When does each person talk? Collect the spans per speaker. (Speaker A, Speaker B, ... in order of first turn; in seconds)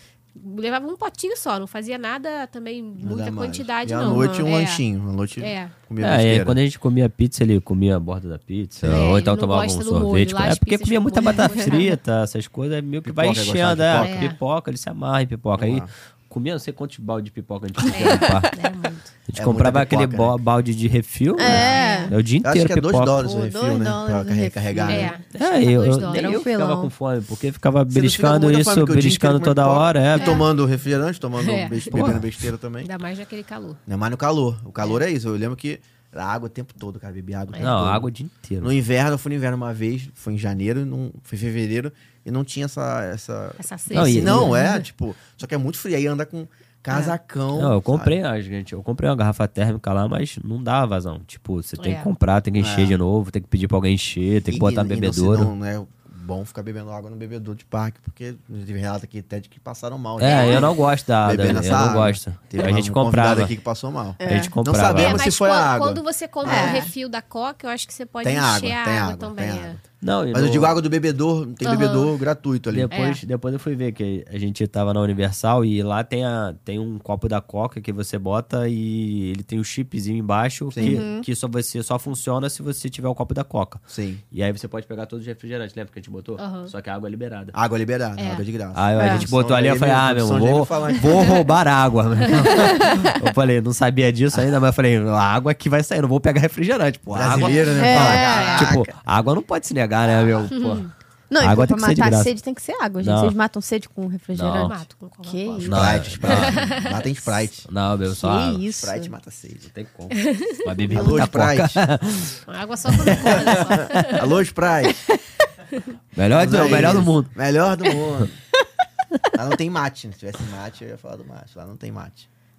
Speaker A: 0.3-4.8, 5.4-5.7, 8.9-11.9, 14.0-14.4, 17.9-19.1, 21.6-22.1, 24.9-26.4, 31.4-32.1, 32.8-33.8, 37.5-37.8, 43.6-44.9, 51.8-52.1, 60.2-60.7, 64.9-69.8, 71.6-72.1, 72.9-73.2, 86.4-86.7, 88.2-88.4, 97.4-98.7, 100.5-100.9, 104.6-107.0, 110.1-111.2, 112.5-114.2
Speaker B: 3.0-6.6, 8.8-9.1, 13.0-14.3, 15.6-15.9, 17.9-18.3, 19.3-20.4, 21.4-21.8, 22.4-25.1, 27.9-32.9, 33.9-38.1, 38.6-48.1, 52.6-53.0, 54.5-66.9, 68.2-72.9, 80.7-81.0, 83.9-84.2, 87.5-91.5, 92.3-92.9, 97.1-98.9, 100.0-100.5, 105.6-107.7, 108.7-109.7, 110.9-111.8, 113.1-115.0, 116.3-118.3, 119.3-122.3
Speaker C: 4.0-4.5, 11.2-11.9, 21.4-22.1, 23.2-25.2, 26.1-26.9, 30.1-30.4, 64.2-64.5, 66.4-66.9, 80.8-81.2, 89.0-89.2, 92.5-93.1, 97.8-98.7, 101.3-106.0, 108.1-109.1
Speaker D: 6.0-18.5, 19.3-23.2, 25.3-30.4, 31.9-32.2, 37.6-38.7, 43.9-44.5, 47.5-55.5, 60.2-63.5, 64.2-65.2, 70.0-70.8, 72.7-87.5, 88.7-102.3, 103.0-103.3, 104.3-104.8, 105.6-106.7, 107.7-108.6, 109.7-112.4, 112.9-114.2, 116.1-117.3